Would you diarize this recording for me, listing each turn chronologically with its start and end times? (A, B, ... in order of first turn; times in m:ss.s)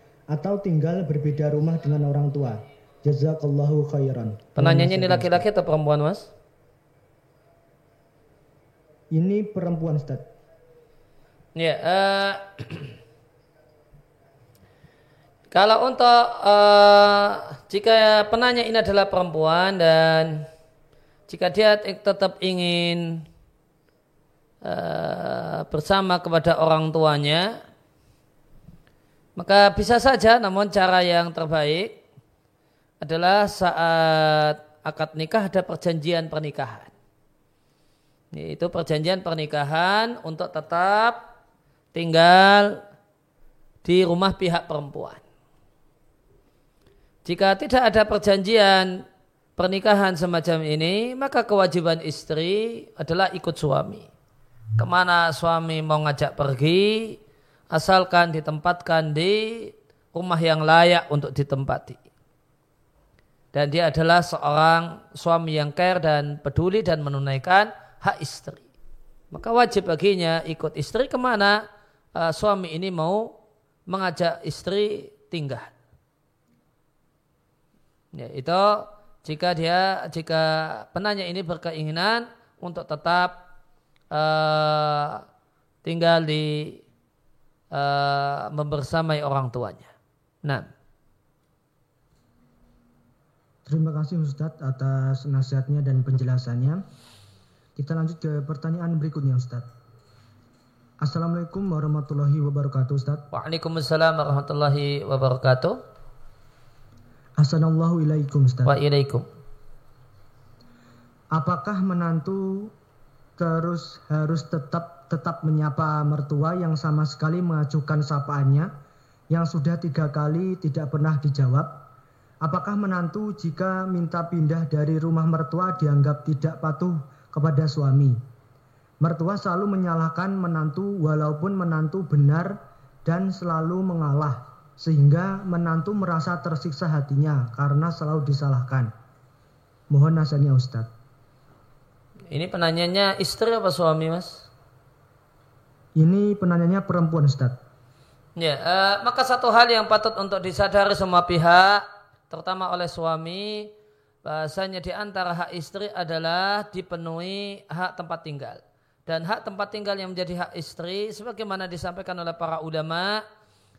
0:00.3-0:05.4 A
0:04.6-0:06.3 B
0:09.1-0:10.3 A
0:11.6-0:12.9 B
0:15.5-0:20.5 B
0:21.3-0:23.2 B
0:24.6-0:27.6 B
0:29.4-0:32.0 B
0:33.0-0:36.9 B
0:38.3-0:41.2 B
0:41.9-0:42.8 B
0:43.8-0:45.2 B
0:47.2-0:49.0 B
0:49.6-0:54.1 B
0:54.8-0:57.2 B
0:57.7-1:02.0 B
1:03.5-1:08.7 B
1:09.3-1:11.6 B
1:12.1-1:13.3 B
1:13.9-1:15.7 B
1:18.1-1:23.4 B
1:24.1-1:25.2 B
1:25.8-1:26.8 B
1:27.7-1:29.9 B
1:33.6-1:36.8 A
1:37.8-1:39.7 A
1:41.0-1:43.2 A
1:43.3-1:45.8 B
1:47.4-1:48.7 A
1:48.6-1:49.2 B
1:51.3-1:52.7 A
1:53.4-1:58.7 A
1:59.3-2:01.8 A
2:02.4-2:08.2 A
2:09.0-2:18.9 A
2:19.9-2:20.9 A
2:22.3-2:24.5 B
2:26.0-2:27.6 A
2:28.4-2:33.7 B
2:34.2-2:43.2 B